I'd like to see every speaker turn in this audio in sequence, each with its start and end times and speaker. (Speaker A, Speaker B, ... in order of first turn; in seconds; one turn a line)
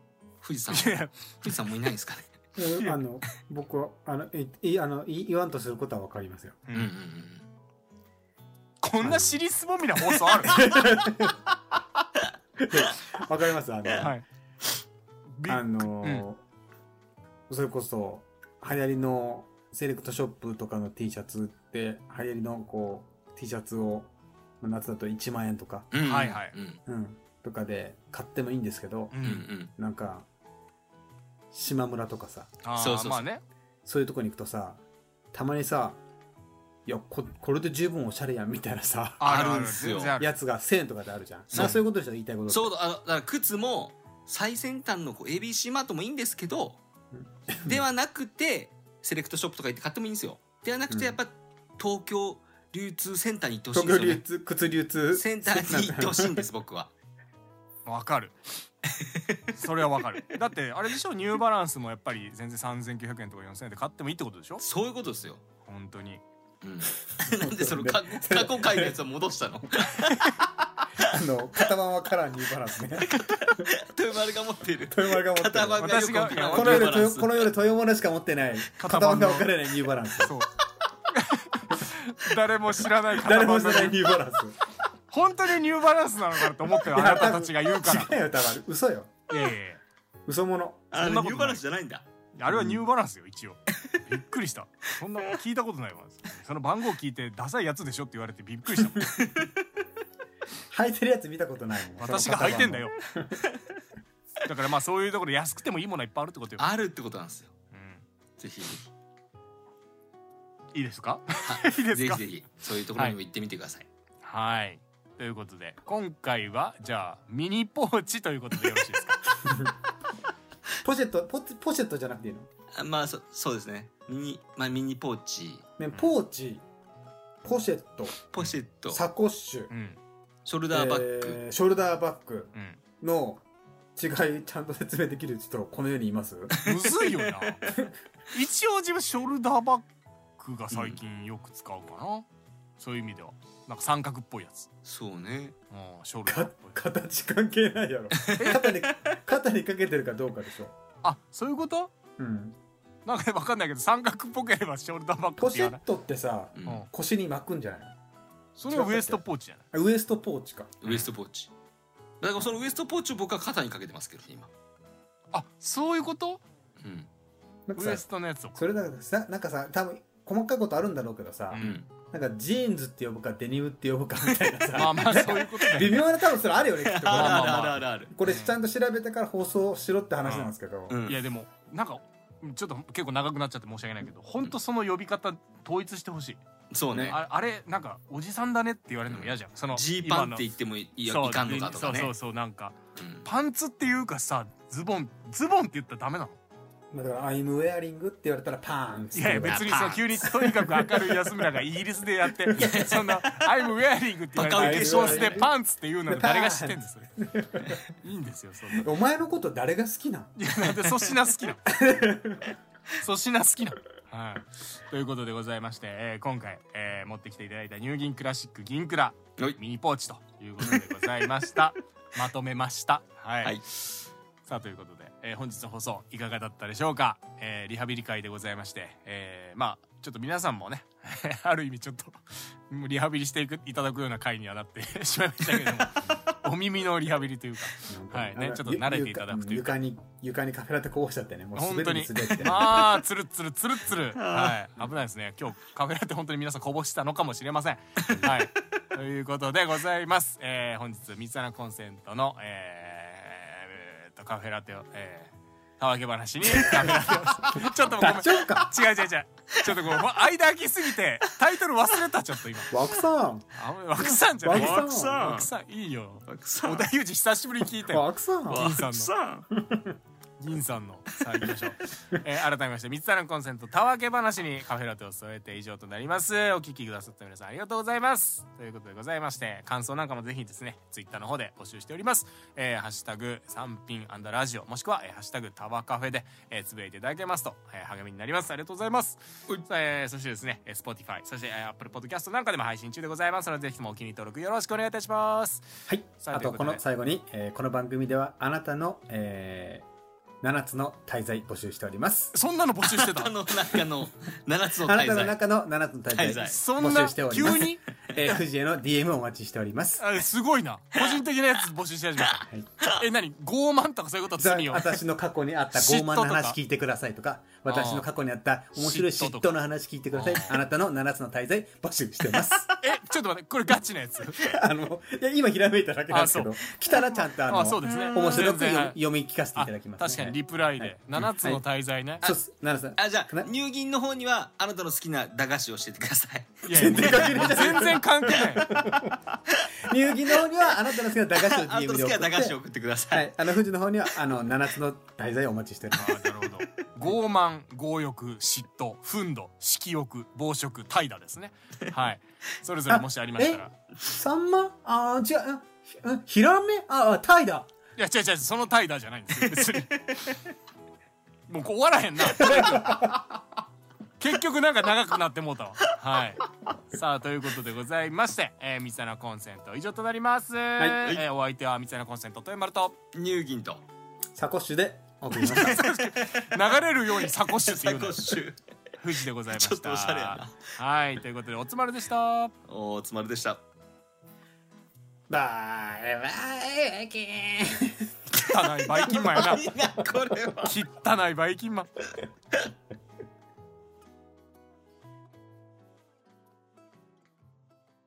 Speaker A: 0.4-2.3
Speaker B: 0.7-1.5
Speaker C: 2.6-6.6
Speaker A: 6.7-7.5
Speaker B: 8.8-10.8
Speaker C: 9.0-9.3
Speaker C: 10.5-11.4
Speaker C: 12.6-14.1
Speaker A: 13.8-14.1
Speaker B: 14.0-14.3
Speaker B: 15.4-16.3
Speaker C: 15.5-16.4
Speaker C: 17.5-25.9
Speaker A: 25.9-26.8
Speaker B: 26.0-26.6
Speaker C: 26.9-29.1
Speaker B: 29.1-29.5
Speaker A: 29.2-29.7
Speaker C: 29.8-30.3
Speaker C: 31.5-32.6
Speaker B: 32.6-33.4
Speaker A: 32.8-33.3
Speaker C: 33.9-34.8
Speaker C: 35.3-36.0
Speaker C: 36.9-39.4
Speaker B: 39.2-40.3
Speaker A: 39.2-40.2
Speaker C: 40.2-42.7
Speaker A: 41.5-41.8
Speaker A: 42.5-46.8
Speaker C: 47.1-47.9
Speaker A: 47.6-54.2
Speaker C: 50.9-51.2
Speaker C: 53.7-56.5
Speaker A: 55.1-56.9
Speaker B: 57.9-58.4
Speaker A: 59.1-59.4
Speaker B: 59.6-64.6
Speaker A: 64.6-65.4
Speaker B: 65.7-66.2
Speaker A: 66.6-70.2
Speaker C: 67.3-69.0
Speaker B: 70.0-70.4
Speaker C: 71.0-73.7
Speaker A: 73.0-77.5
Speaker C: 74.9-80.4
Speaker B: 75.8-77.0
Speaker B: 78.8-79.5
Speaker B: 80.2-80.5
Speaker B: 81.1-84.0
Speaker C: 83.1-84.6
Speaker B: 85.1-88.2
Speaker C: 86.8-89.2
Speaker B: 89.3-89.8
Speaker C: 90.3-90.9
Speaker A: 90.9-92.1
Speaker B: 90.9-91.6
Speaker B: 92.4-99.1
Speaker C: 92.5-92.8
Speaker A: 99.1-99.6
Speaker C: 100.7-103.4
Speaker B: 102.0-103.0
Speaker B: 104.4-106.7
Speaker A: 106.6-107.5
Speaker B: 107.7-108.0
Speaker A: 108.4-108.9
Speaker B: 110.7-112.2
Speaker A: 111.4-113.9
Speaker B: 114.2-119.2
Speaker C: 119.5-119.8
Speaker C: 120.8-122.5
Speaker A: 122.7-125.7
Speaker C: 125.8-126.7
Speaker C: 127.4-128.2
Speaker A: 128.3-129.0
Speaker C: 128.9-129.7
Speaker B: 129.7-130.0
Speaker A: 130.5-131.4
Speaker C: 130.7-133.4
Speaker B: 132.5-132.8
Speaker C: 134.0-136.6
Speaker B: 136.6-137.7
Speaker B: 138.3-139.9
Speaker B: 140.4-142.3
Speaker A: 140.7-141.0
Speaker B: 142.8-144.7
Speaker A: 144.8-145.6
Speaker B: 145.7-146.8
Speaker C: 146.3-150.8
Speaker A: 148.2-149.2
Speaker B: 148.4-148.7
Speaker B: 151.0-151.9
Speaker C: 152.2-152.6
Speaker B: 153.1-155.8
Speaker C: 155.4-157.9
Speaker A: 156.6-156.9
Speaker B: 158.6-159.6
Speaker C: 158.7-160.7
Speaker A: 160.8-161.5
Speaker A: 162.2-164.5
Speaker B: 165.3-166.4
Speaker A: 166.8-167.1
Speaker C: 167.7-181.0
Speaker B: 167.8-168.6
Speaker B: 171.5-171.8
Speaker A: 171.6-171.9
Speaker B: 174.7-176.0
Speaker A: 176.8-178.1
Speaker B: 177.1-178.5
Speaker B: 180.2-180.5
Speaker A: 180.9-181.2
Speaker B: 181.1-186.4
Speaker A: 186.7-187.2
Speaker B: 187.0-190.4
Speaker A: 189.1-192.1
Speaker B: 191.1-196.4
Speaker A: 193.0-193.3
Speaker C: 196.9-201.4
Speaker B: 199.1-207.1
Speaker A: 199.4-200.0
Speaker C: 202.4-202.8
Speaker A: 202.6-203.6
Speaker A: 204.3-205.5
Speaker C: 204.5-205.6
Speaker C: 206.1-207.8
Speaker B: 207.7-208.8
Speaker C: 208.7-210.4
Speaker B: 210.4-211.7
Speaker C: 211.7-212.5
Speaker B: 213.0-239.8
Speaker A: 235.6-236.1
Speaker C: 237.9-242.7
Speaker B: 241.6-262.7
Speaker A: 242.5-242.8
Speaker A: 244.1-244.6
Speaker A: 248.0-248.3
Speaker C: 257.4-258.8
Speaker C: 262.7-263.5
Speaker B: 263.5-269.1
Speaker C: 264.0-265.2
Speaker A: 264.5-265.5
Speaker A: 266.3-266.9
Speaker C: 267.9-268.7
Speaker A: 268.5-269.5
Speaker C: 269.6-269.9
Speaker B: 270.4-296.8
Speaker C: 295.9-299.9
Speaker C: 300.4-302.3
Speaker B: 302.3-303.4
Speaker A: 302.9-305.4
Speaker C: 304.8-310.1
Speaker A: 306.1-306.6
Speaker B: 306.4-308.4
Speaker B: 310.0-315.0
Speaker A: 312.8-313.1
Speaker C: 314.4-322.7
Speaker B: 315.7-316.6
Speaker B: 317.7-318.1
Speaker B: 318.8-319.5
Speaker B: 320.1-320.6
Speaker B: 322.8-324.4
Speaker C: 324.4-331.6
Speaker B: 326.1-326.6
Speaker B: 327.5-329.0
Speaker A: 327.9-328.3
Speaker B: 329.6-332.3
Speaker C: 332.2-333.5
Speaker A: 333.0-337.9
Speaker B: 336.7-338.7
Speaker C: 336.7-339.3
Speaker C: 339.8-342.6
Speaker A: 341.3-343.4
Speaker C: 343.1-346.3
Speaker B: 345.9-353.7
Speaker C: 353.4-357.7
Speaker B: 358.0-360.4
Speaker B: 361.5-363.2
Speaker C: 362.4-363.2
Speaker B: 364.2-373.0
Speaker C: 370.8-371.0
Speaker A: 373.1-373.8
Speaker C: 374.4-375.8
Speaker B: 375.3-378.4
Speaker A: 375.4-378.6
Speaker B: 379.0-382.6
Speaker A: 379.5-380.7
Speaker A: 382.7-383.6
Speaker C: 385.3-388.1
Speaker B: 388.3-389.7
Speaker A: 388.4-390.8
Speaker B: 390.6-392.0